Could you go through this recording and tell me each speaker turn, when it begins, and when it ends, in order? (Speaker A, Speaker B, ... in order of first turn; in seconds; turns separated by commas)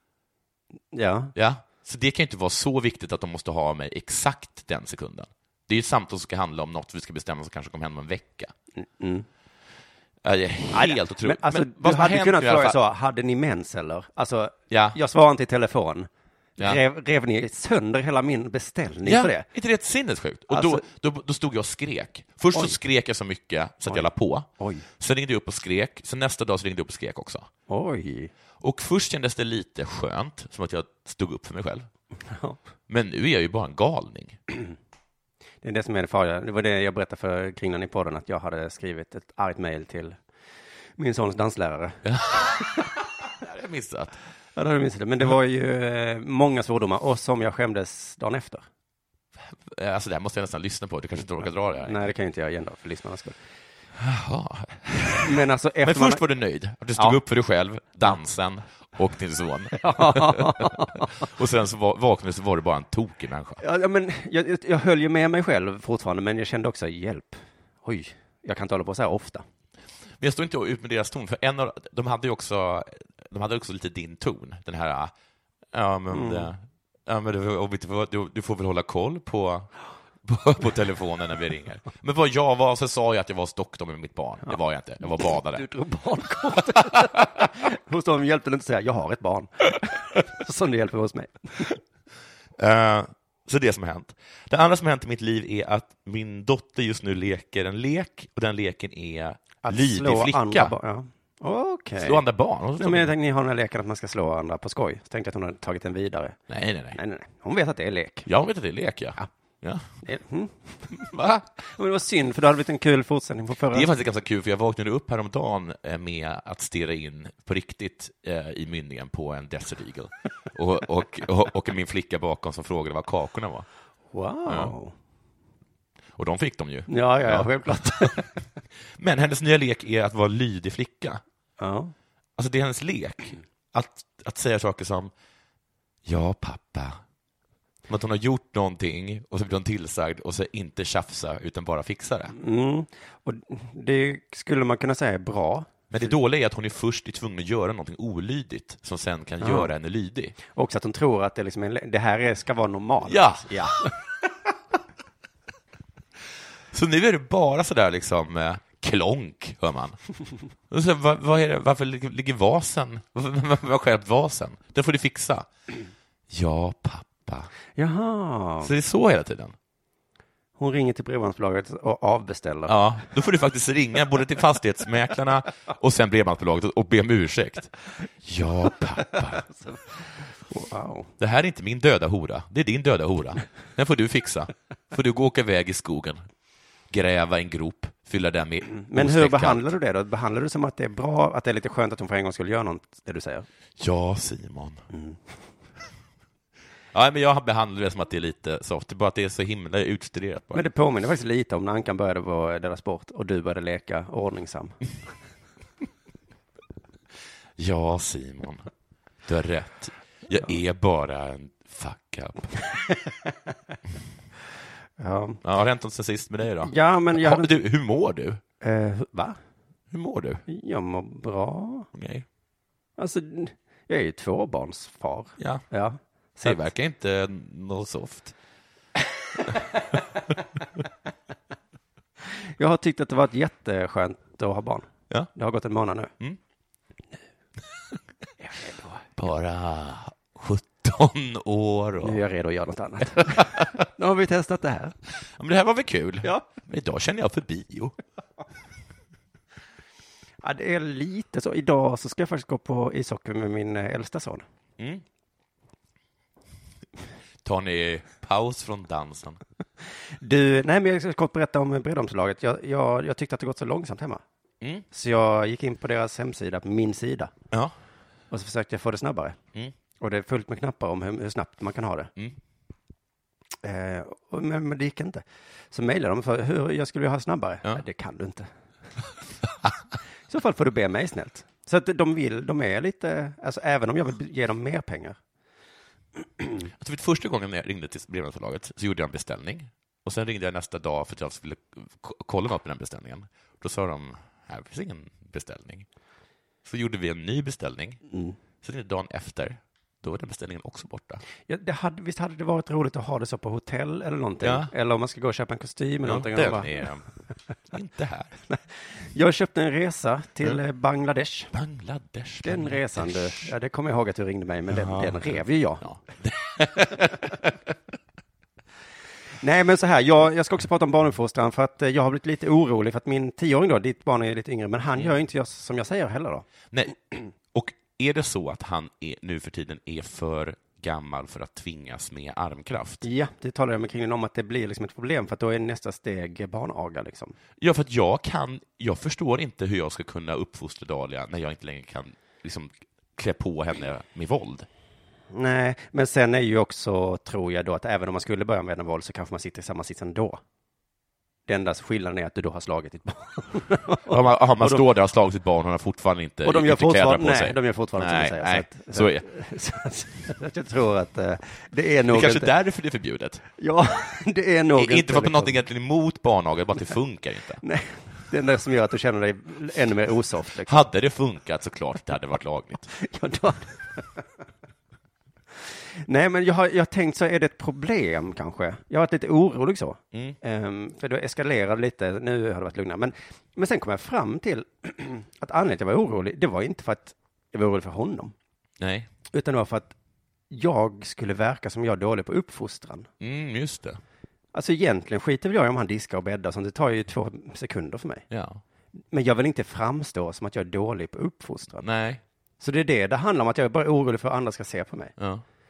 Speaker A: 0.9-1.3, Speaker B: 1.4-8.5, Speaker A: 8.8-9.3, Speaker B: 10.2-12.8, Speaker A: 10.7-19.5, Speaker B: 14.7-15.0, Speaker B: 19.1-27.5, Speaker A: 20.5-20.8, Speaker A: 24.6-24.9, Speaker A: 27.7-28.3, Speaker B: 28.6-31.9, Speaker A: 32.3-32.6, Speaker B: 32.9-34.4, Speaker A: 35.6-40.2, Speaker A: 41.0-42.8, Speaker B: 42.0-44.2, Speaker A: 44.6-48.6, Speaker B: 49.4-52.0, Speaker A: 51.8-53.4, Speaker B: 54.0-55.3, Speaker A: 55.2-56.2, Speaker B: 55.8-63.6, Speaker A: 59.8-61.1, Speaker A: 63.6-69.5, Speaker B: 70.2-75.1, Speaker B: 75.7-79.7, Speaker A: 76.1-76.5, Speaker B: 80.2-85.6, Speaker A: 85.2-91.8, Speaker B: 92.6-100.7, Speaker A: 99.6-102.2, Speaker B: 102.0-103.1, Speaker A: 102.8-106.4, Speaker B: 106.5-107.0, Speaker A: 106.9-108.3, Speaker B: 108.3-109.9, Speaker A: 110.0-111.1, Speaker B: 110.9-111.5, Speaker A: 111.6-113.9, Speaker B: 113.7-123.7, Speaker A: 124.1-125.0, Speaker B: 124.5-124.7, Speaker B: 126.2-128.2, Speaker A: 126.9-128.3, Speaker B: 129.0-131.2, Speaker A: 131.6-131.9, Speaker B: 132.4-135.1, Speaker B: 136.1-137.0, Speaker B: 137.9-142.3, Speaker A: 142.3-145.7, Speaker B: 145.9-150.4, Speaker A: 149.4-149.7, Speaker A: 150.5-153.9, Speaker B: 153.0-153.9, Speaker B: 156.7-160.0, Speaker B: 160.7-165.5, Speaker B: 166.3-167.5, Speaker A: 167.8-168.7, Speaker B: 168.6-169.6, Speaker A: 170.6-172.8, Speaker B: 172.7-179.5, Speaker A: 179.1-179.8, Speaker A: 180.5-181.1, Speaker B: 181.2-186.2, Speaker B: 186.9-189.7, Speaker A: 188.8-193.5, Speaker B: 193.8-194.8, Speaker A: 194.9-195.2, Speaker B: 196.9-200.6, Speaker A: 200.5-204.8, Speaker B: 207.6-208.7, Speaker B: 209.2-212.6, Speaker A: 215.0-215.4, Speaker B: 215.4-218.4, Speaker A: 216.6-217.6, Speaker A: 218.6-219.4, Speaker B: 219.9-220.4, Speaker A: 220.5-221.9, Speaker B: 221.9-222.3, Speaker A: 223.0-226.6, Speaker B: 226.4-228.3, Speaker A: 232.4-236.1, Speaker A: 238.4-239.0, Speaker B: 239.2-242.2, Speaker A: 242.0-244.9, Speaker B: 243.2-243.7, Speaker B: 245.2-248.0, Speaker A: 250.4-254.4, Speaker B: 254.8-255.0, Speaker B: 257.4-259.4, Speaker A: 260.2-264.2, Speaker A: 264.9-267.3, Speaker A: 268.3-269.4, Speaker A: 270.0-272.1, Speaker A: 273.6-278.5, Speaker A: 280.3-285.2, Speaker B: 286.8-295.9, Speaker B: 296.6-298.0, Speaker A: 298.1-298.4, Speaker B: 298.6-301.2, Speaker A: 301.5-306.8, Speaker B: 304.4-304.7, Speaker B: 306.1-307.0, Speaker B: 307.7-308.3, Speaker A: 308.5-311.5, Speaker B: 311.5-313.5, Speaker A: 312.4-315.8, Speaker B: 314.7-317.5, Speaker A: 319.4-326.5, Speaker B: 326.7-333.0, Speaker A: 333.0-337.4, Speaker B: 337.6-344.7, Speaker A: 345.3-350.4, Speaker A: 351.5-354.9, Speaker B: 354.1-359.3, Speaker A: 356.4-362.5, Speaker B: 362.1-363.4, Speaker A: 363.6-365.6, Speaker B: 364.8-367.6, Speaker A: 367.6-370.8, Speaker B: 370.7-372.9, Speaker A: 372.9-374.2, Speaker A: 376.0-388.3, Speaker B: 388.8-389.1, Speaker A: 389.3-389.9, Speaker A: 390.5-393.1, Speaker B: 393.2-394.0, Speaker A: 394.5-398.3, Speaker B: 398.3-398.6, Speaker A: 399.1-401.9, Speaker B: 401.8-402.2, Speaker A: 402.6-405.1, Speaker B: 405.2-405.4